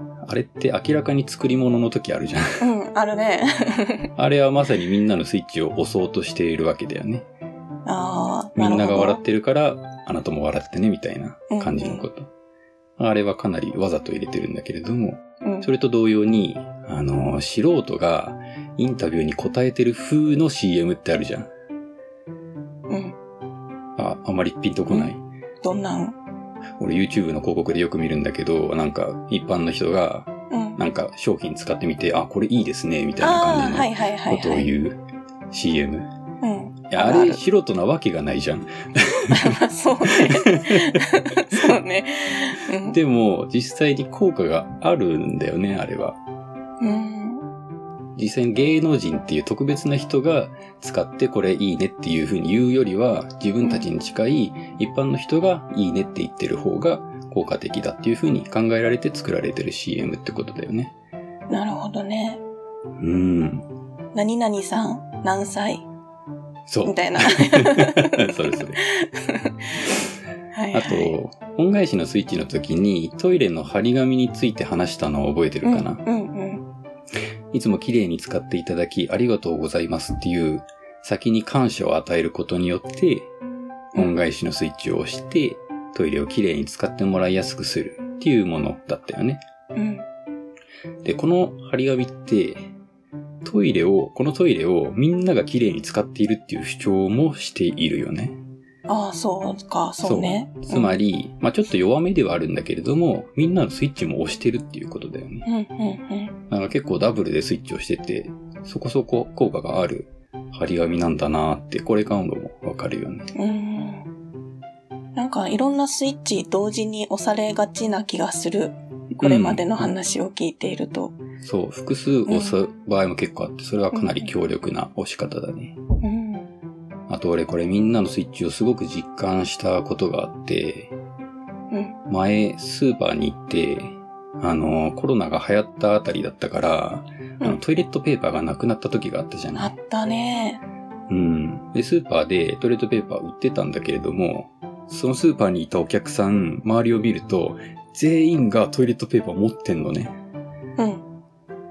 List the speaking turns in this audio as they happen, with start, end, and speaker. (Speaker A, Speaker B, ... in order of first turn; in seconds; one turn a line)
Speaker A: 0.2-2.6
Speaker B: 2.6-4.1
Speaker A: 4.2-7.2
Speaker B: 7.8-9.2
Speaker A: 8.6-12.3
Speaker B: 11.5-12.0
Speaker A: 13.0-21.5
Speaker B: 15.4-15.7
Speaker B: 22.9-23.1
Speaker A: 24.0-25.2
Speaker B: 25.6-26.2
Speaker A: 26.8-36.1
Speaker B: 30.5-30.8
Speaker B: 33.2-34.7
Speaker B: 36.4-37.4
Speaker A: 36.9-41.7
Speaker B: 39.3-43.0
Speaker A: 42.9-46.2
Speaker B: 46.8-47.4
Speaker A: 48.1-60.9
Speaker B: 61.5-62.4
Speaker A: 63.0-63.7
Speaker B: 64.1-65.8
Speaker A: 66.7-68.8
Speaker B: 66.8-69.9
Speaker B: 70.5-71.1
Speaker A: 70.7-76.0
Speaker B: 75.6-76.6
Speaker A: 77.5-83.3
Speaker A: 83.9-89.4
Speaker B: 89.7-90.0
Speaker A: 91.0-92.7
Speaker A: 93.4-98.4
Speaker B: 98.9-100.9
Speaker A: 100.0-105.5
Speaker B: 105.5-106.3
Speaker A: 106.5-113.3
Speaker B: 113.3-114.1
Speaker B: 115.1-121.2
Speaker A: 119.2-119.6
Speaker A: 121.4-125.8
Speaker B: 122.3-122.6
Speaker B: 123.9-124.3
Speaker B: 126.0-126.5
Speaker A: 127.1-130.9
Speaker B: 131.7-131.9
Speaker A: 132.1-139.7
Speaker B: 139.6-140.6
Speaker A: 141.1-150.1
Speaker B: 150.8-151.0